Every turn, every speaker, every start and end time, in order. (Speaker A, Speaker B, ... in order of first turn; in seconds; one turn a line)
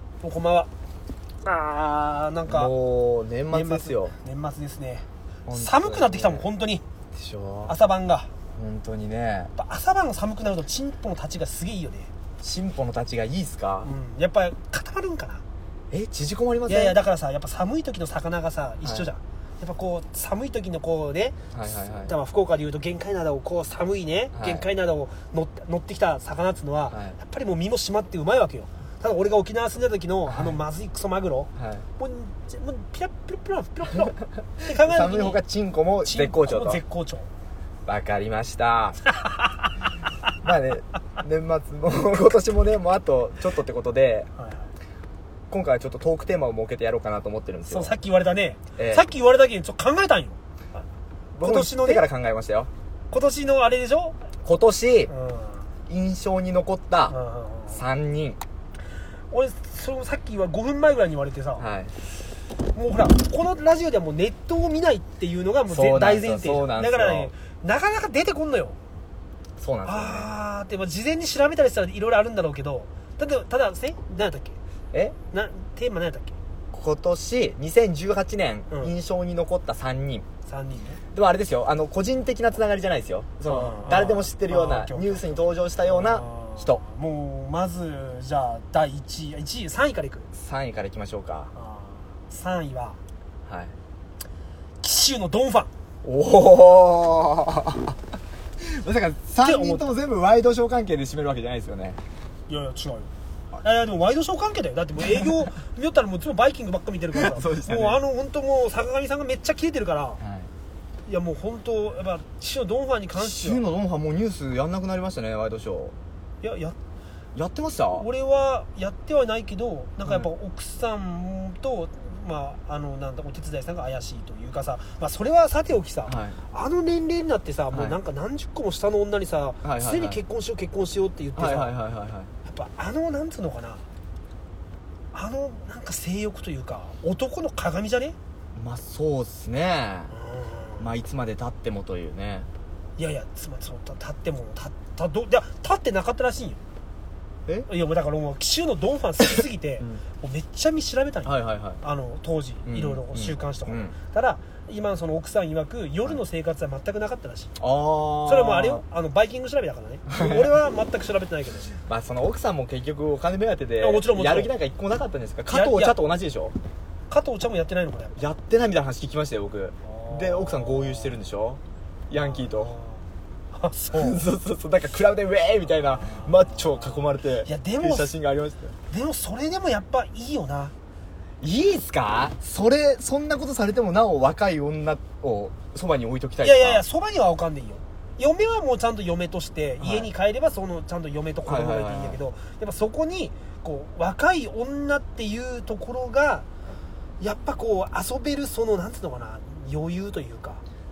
Speaker A: 0.2-0.7
Speaker A: 1.4-2.7
Speaker B: 2.5-4.2
Speaker A: 3.5-6.8
Speaker B: 5.5-6.5
Speaker B: 7.1-7.7
Speaker A: 7.7-8.3
Speaker B: 8.5-9.5
Speaker A: 9.6-12.1
Speaker B: 12.4-13.9
Speaker A: 13.8-15.4
Speaker B: 15.9-17.0
Speaker A: 16.7-21.4
Speaker B: 18.8-19.1
Speaker B: 21.5-22.1
Speaker A: 22.1-35.4
Speaker B: 24.3-24.6
Speaker B: 26.9-27.1
Speaker B: 30.3-30.6
Speaker B: 31.6-31.9
Speaker B: 34.1-36.8
Speaker A: 36.0-37.3
Speaker B: 37.9-39.0
Speaker A: 39.2-39.7
Speaker B: 40.4-44.3
Speaker A: 44.4-44.7
Speaker B: 45.5-47.9
Speaker A: 47.7-50.4
Speaker B: 48.8-49.1
Speaker B: 51.4-52.7
Speaker A: 51.4-52.1
Speaker A: 53.1-54.2
Speaker B: 54.5-55.1
Speaker A: 55.1-55.7
Speaker B: 55.9-57.2
Speaker A: 57.1-57.8
Speaker B: 57.7-58.4
Speaker A: 59.3-61.6
Speaker B: 61.6-62.0
Speaker A: 62.8-68.8
Speaker B: 65.7-67.3
Speaker B: 69.6-70.3
Speaker A: 69.8-74.6
Speaker A: 75.3-76.4
Speaker B: 76.7-80.3
Speaker A: 80.5-81.0
Speaker B: 81.1-86.8
Speaker A: 83.5-90.3
Speaker B: 90.3-91.5
Speaker A: 91.5-93.0
Speaker B: 93.5-93.7
Speaker A: 94.8-95.7
Speaker B: 96.0-98.0
Speaker B: 98.6-102.0
Speaker A: 99.4-99.9
Speaker A: 102.5-103.1
Speaker A: 103.6-110.2
Speaker B: 107.1-108.0
Speaker B: 110.2-110.5
Speaker A: 111.1-113.6
Speaker B: 113.2-116.0
Speaker A: 116.4-116.8
Speaker B: 117.3-118.1
Speaker A: 117.9-131.7
Speaker B: 126.1-126.4
Speaker B: 127.7-128.0
Speaker B: 129.6-130.2
Speaker B: 131.4-132.3
Speaker A: 132.4-133.8
Speaker A: 135.1-138.2
Speaker B: 138.6-140.1
Speaker A: 140.1-140.8
Speaker B: 140.8-142.5
Speaker A: 143.0-146.6
Speaker A: 147.7-157.6
Speaker B: 151.2-151.8
Speaker B: 152.7-153.9
Speaker B: 157.6-158.8
Speaker A: 158.3-161.7
Speaker B: 160.1-160.5
Speaker B: 161.7-166.6
Speaker A: 163.8-164.5
Speaker A: 165.5-166.0
Speaker A: 167.1-168.2
Speaker B: 168.2-172.8
Speaker A: 169.8-171.2
Speaker A: 172.2-173.0
Speaker A: 173.5-174.3
Speaker B: 173.9-178.8
Speaker A: 176.0-178.1
Speaker A: 178.9-180.7
Speaker B: 181.4-186.8
Speaker A: 186.4-196.5
Speaker B: 189.8-190.1
Speaker B: 191.5-192.2
Speaker A: 197.2-200.6